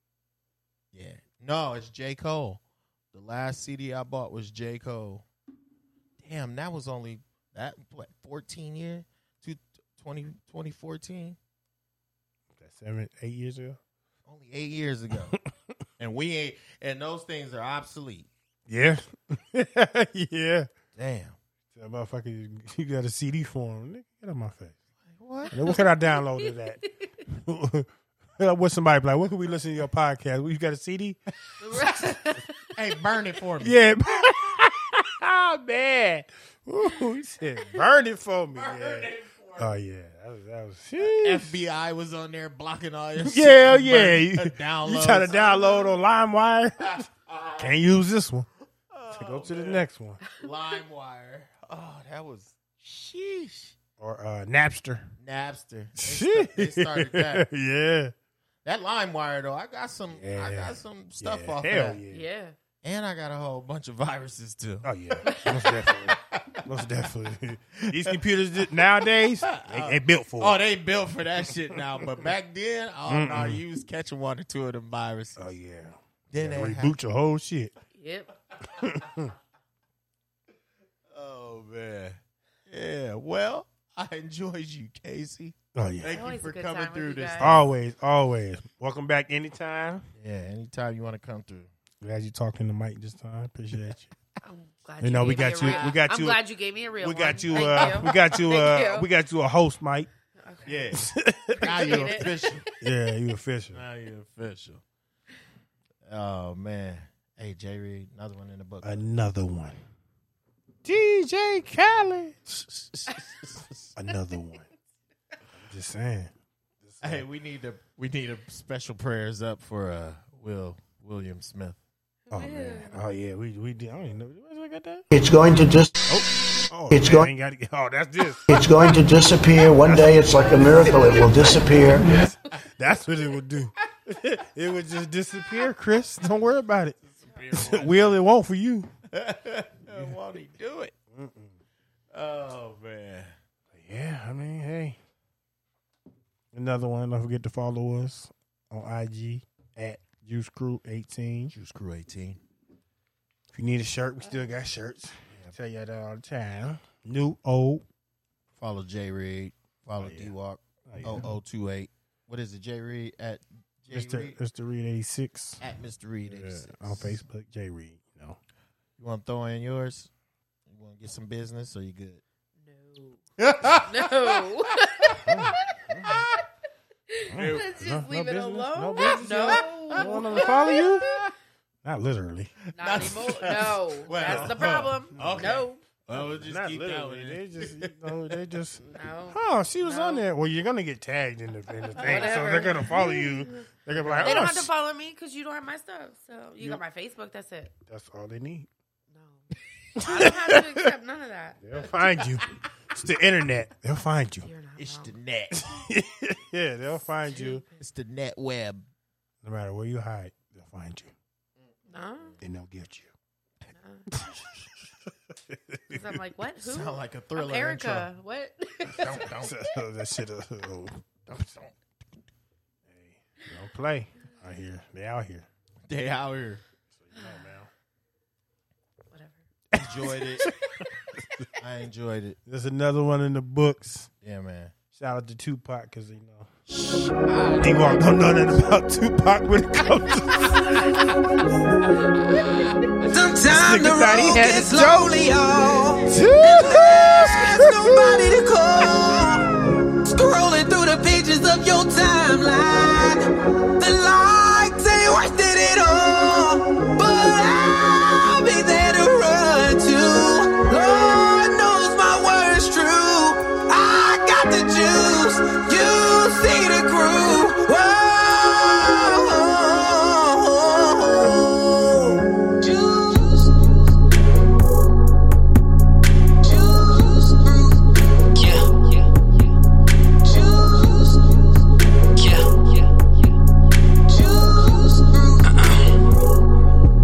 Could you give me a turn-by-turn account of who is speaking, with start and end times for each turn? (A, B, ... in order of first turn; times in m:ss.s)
0:00.9-0:02.6 A
0:03.1-0:05.3 A
0:06.2-0:11.4 A
0:12.6-0:13.8 B
0:14.3-0:15.4 A
0:16.0-0:18.3 A
0:18.7-0:20.7 B
0:21.0-0:21.4 A
0:21.7-0:24.8 B
0:25.1-0:25.6 A
0:25.4-0:26.9 C
0:25.5-0:31.2 B
0:31.6-0:32.5 C
0:32.8-0:33.8 A
0:33.6-0:41.5 B
0:38.5-0:39.7 A
0:41.0-0:45.9 A
0:43.2-0:47.1 B
0:46.8-0:47.8 A
0:47.6-0:48.5 B
0:48.9-0:53.8 A
0:49.1-0:50.2 B
0:54.0-0:55.1 B
0:55.2-0:57.5 A
0:56.0-0:58.1 B
0:58.6-1:02.0 A
1:00.1-1:02.2 B
1:02.1-1:02.6 C
1:02.8-1:06.6 A
1:04.8-1:10.6 B
1:05.3-1:05.9 C
1:07.8-1:15.5 A
1:13.1-1:13.6 B
1:15.4-1:17.7 B
1:16.3-1:17.0 A
1:17.9-1:18.3 C
1:18.8-1:19.3 B
1:21.1-1:27.7 A
1:25.8-1:26.2 B
1:26.1-1:27.6 C
1:27.4-1:30.0 B
1:30.2-1:31.7 A
1:32.0-1:34.1 B
1:34.4-1:39.1 C
1:35.0-1:36.4 B
1:35.6-1:36.0 A
1:37.0-1:40.1 B
1:37.5-1:38.2 A
1:40.4-1:40.8 C
1:40.7-1:42.7 A
1:40.9-1:42.0 B
1:41.6-1:42.8 C
1:42.8-1:43.8 B
1:43.7-1:44.8 A
1:46.1-1:49.1 A
1:48.8-1:49.8 B
1:50.8-1:53.4 B
1:54.0-1:54.7 B
1:55.6-1:57.3 B
1:57.0-2:01.8 A
2:02.3-2:03.0 C
2:02.3-2:05.0 B
2:05.1-2:06.0 D
2:06.1-2:08.5 B
2:06.9-2:07.3 D
2:08.5-2:12.1 D
2:09.9-2:10.2 B
2:10.9-2:11.9 C
2:12.1-2:17.0 B
2:17.0-2:18.2 A
2:17.5-2:18.9 B
2:19.1-2:20.9 A
2:19.9-2:20.2 B
2:21.1-2:21.6 B
2:22.1-2:23.4 A
2:23.7-2:25.0 B
2:26.5-2:31.5 B
2:31.5-2:32.4 A
2:33.5-2:37.8 B
2:38.6-2:44.4 A
2:40.0-2:40.3 B
2:40.9-2:41.3 B
2:43.9-2:45.6 B
2:45.6-2:47.2 A
2:46.3-2:48.4 B
2:49.0-2:50.1 A
2:50.7-2:52.2 A
2:52.6-2:53.2 C
2:53.4-2:55.3 A
2:53.8-2:56.4 C
2:55.2-2:56.2 B
2:56.0-2:56.4 A
2:57.1-3:01.2 C
2:57.3-3:01.1 B
2:57.3-2:57.7 A
2:59.2-3:01.3 A
3:01.8-3:02.5 B
3:02.6-3:08.4 A
3:02.8-3:05.8 C
3:04.1-3:14.7 B
3:08.9-3:10.2 C
3:11.9-3:17.7 C
3:12.0-3:12.8 A
3:14.0-3:14.4 A
3:17.9-3:18.7 B
3:19.1-3:22.3 C
3:20.0-3:20.9 B
3:21.6-3:24.5 B
3:24.4-3:25.1 C
3:24.8-3:25.7 A
3:25.5-3:27.6 B
3:27.2-3:27.8 C
3:27.8-3:28.9 A
3:29.4-3:31.1 B
3:31.6-3:32.4 A
3:31.9-3:32.4 C
3:32.4-3:33.1 B
3:33.8-3:34.1 C
3:34.1-3:34.4 B
3:35.4-3:36.2 B
3:35.9-3:39.3 C
3:36.6-3:38.1 A
3:38.9-3:39.6 A
3:39.2-3:41.0 B
3:41.3-3:42.0 A
3:42.9-3:45.5 B
3:45.9-3:46.6 A
3:46.9-3:47.7 B
3:47.1-3:47.5 C
3:49.1-3:49.4 C
3:49.7-3:50.5 B
3:49.7-3:50.5 A
3:50.4-3:51.0 C
3:51.6-3:52.4 A
3:52.5-3:54.1 B
3:54.2-3:54.7 A
3:54.9-3:56.5 B
3:57.6-4:01.1 B
4:03.1-4:09.4 E
4:03.4-4:05.2 B
4:06.1-4:08.1 B
4:10.0-4:33.9 E
4:36.4-4:39.4 E
4:40.2-4:41.6 E
4:42.2-4:43.1 E
4:44.0-4:46.0 E